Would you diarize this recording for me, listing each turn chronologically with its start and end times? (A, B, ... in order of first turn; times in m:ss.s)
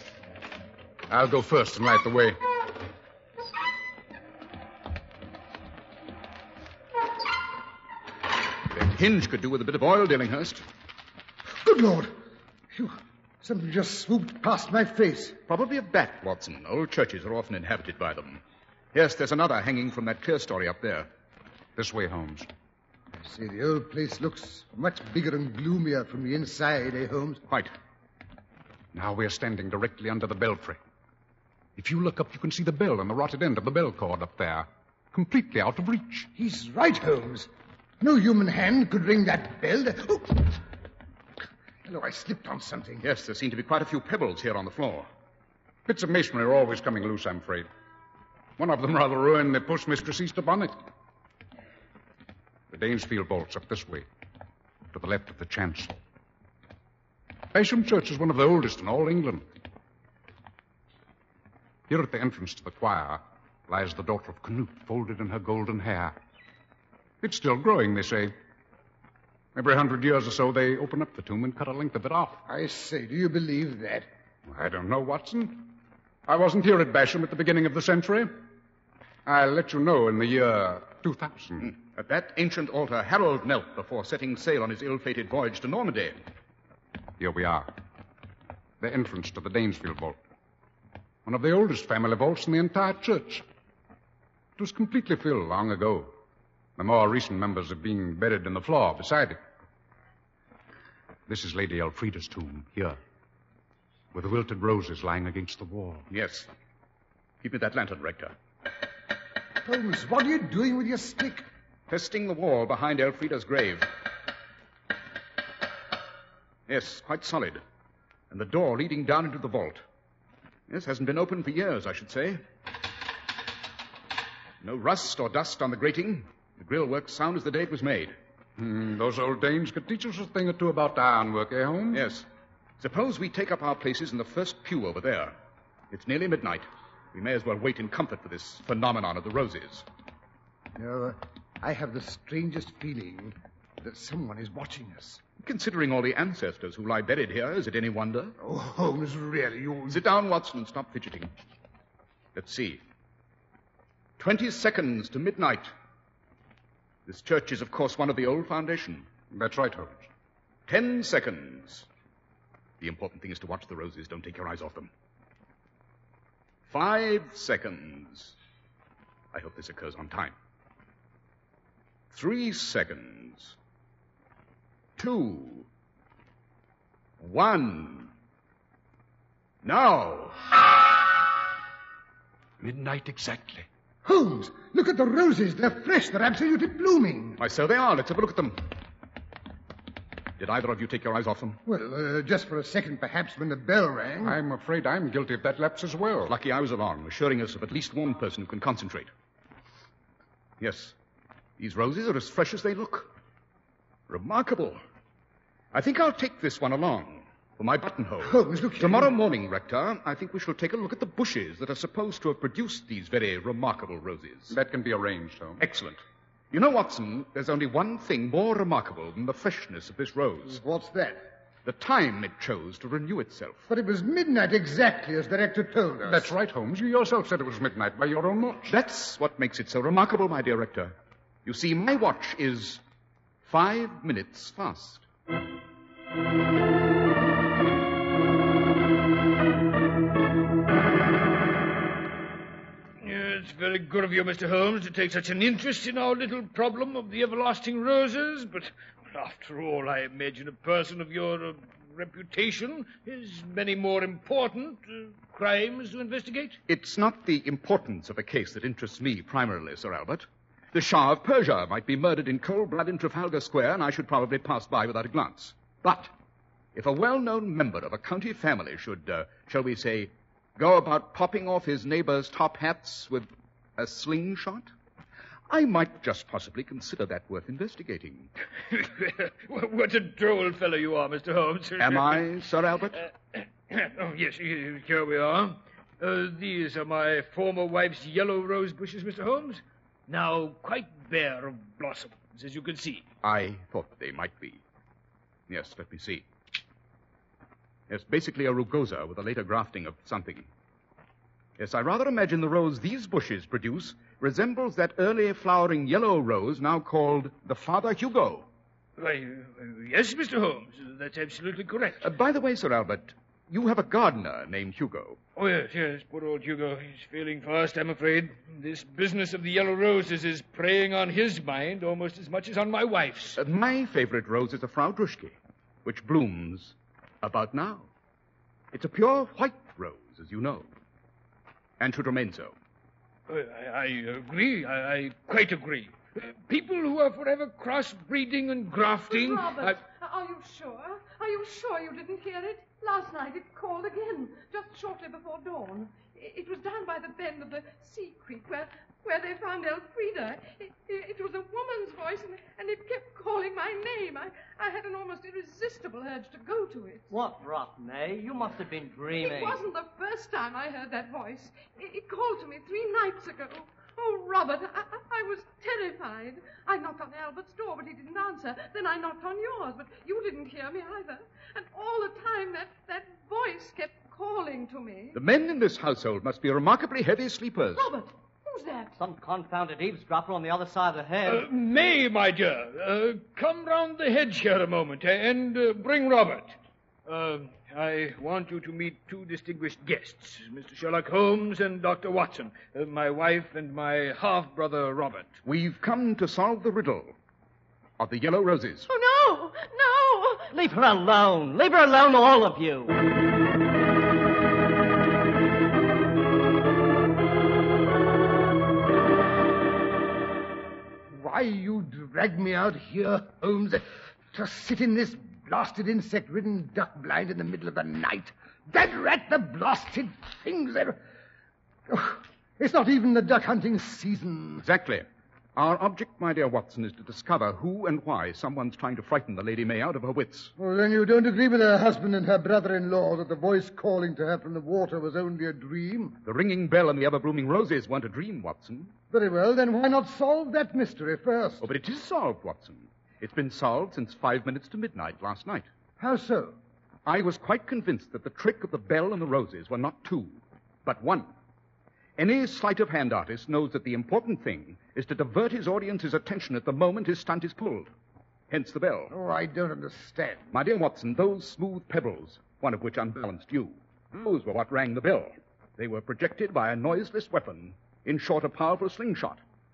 0:01.1-0:02.4 A
0:08.7-0:10.6 B
0:11.6-0:12.1 C
0:12.7-0:15.4 C
0:15.5-0:18.4 B
0:18.9-0:21.1 B
0:21.8-0:22.5 A
0:23.2-0:27.4 C
0:27.5-0:27.7 B
0:28.9-0:30.8 A
0:31.8-0:36.3 A
0:36.4-0:37.5 C
0:38.0-0:40.6 C
0:41.8-0:43.0 C
0:43.0-0:45.1 B
0:45.9-0:47.7 A
0:48.6-0:50.8 A
0:52.7-0:54.1 A
0:54.9-0:56.0 A
0:57.5-0:59.4 A
1:01.9-1:06.2 A
1:07.2-1:08.3 A
1:09.5-1:12.4 A
1:12.5-1:14.0 C
1:14.5-1:18.4 A
1:19.2-1:21.7 A
1:21.6-1:26.2 B
1:27.2-1:27.7 A
1:28.8-1:30.2 A
1:31.2-1:33.4 A
1:34.6-1:36.1 A
1:36.8-1:39.4 A
1:41.3-1:43.0 A
1:44.1-1:46.1 A
1:46.1-1:46.5 B
1:47.4-1:48.3 B
1:49.6-1:51.4 C
1:51.9-1:53.9 B
1:56.7-1:57.6 B
1:58.3-1:59.8 B
2:00.7-2:02.4 B
2:04.6-2:08.2 B
2:08.6-2:12.0 A
2:11.9-2:12.2 B
2:12.8-2:15.4 B
2:15.9-2:19.8 B
2:20.8-2:25.2 C
2:25.4-2:28.4 B
2:28.4-2:30.0 C
2:29.9-2:31.3 B
2:32.3-2:32.8 B
2:34.2-2:35.7 B
2:37.1-2:39.1 B
2:39.3-2:40.1 A
2:40.7-2:41.9 B
2:42.8-2:44.9 B
2:46.7-2:48.3 B
2:49.3-2:50.3 B
2:52.1-2:53.5 B
2:55.0-2:55.7 B
2:57.2-2:58.1 B
2:59.6-3:00.7 B
3:02.6-3:03.7 A
3:04.0-3:07.4 C
3:07.4-3:08.7 B
3:10.4-3:11.6 B
3:11.6-3:14.4 C
3:14.2-3:16.3 A
3:16.2-3:19.1 B
3:20.6-3:20.9 B
3:21.6-3:23.1 B
3:24.1-3:24.8 B
3:25.7-3:34.6 B
3:28.2-3:29.1 C
3:34.5-3:35.6 A
3:35.6-3:40.6 B
3:40.5-3:41.2 C
3:41.6-3:43.7 B
3:43.7-3:46.3 C
3:46.0-3:48.7 A
3:48.7-3:50.9 B
3:51.4-3:52.8 B
3:53.4-3:55.0 B
4:03.0-4:16.6 D
4:16.7-4:26.1 B
4:26.7-4:34.7 B
4:35.5-4:38.3 B
4:38.7-4:42.3 D
4:41.8-4:43.0 B
4:43.0-4:53.0 D
4:53.2-4:54.6 B
4:55.5-4:56.3 B
4:57.9-5:00.5 B
5:01.6-5:08.5 B
5:09.0-5:12.1 D
5:12.0-5:15.2 B
5:15.4-5:23.4 D
5:23.4-5:27.9 B
5:28.7-5:30.7 B
5:31.8-5:32.5 B
5:33.3-5:39.8 D
5:39.1-5:57.1 E
5:57.1-5:59.6 F
5:59.2-6:15.2 E
6:15.1-6:17.9 B
6:17.7-6:19.0 E
6:19.0-6:21.5 F
6:21.2-6:35.4 D
6:35.4-6:37.1 B
6:38.0-6:38.9 B
6:38.9-6:40.5 E
6:40.6-6:43.0 F
6:51.1-7:01.0 C
7:01.9-7:04.6 C
7:04.6-7:10.5 B
7:10.6-7:16.2 C
7:16.2-7:18.9 B
7:19.1-7:21.6 C
7:21.6-7:25.7 B
7:26.0-7:26.6 C
7:27.0-7:31.3 B
7:32.2-7:37.9 B
7:38.5-7:39.1 B
7:39.1-7:40.5 C
7:40.5-7:49.4 B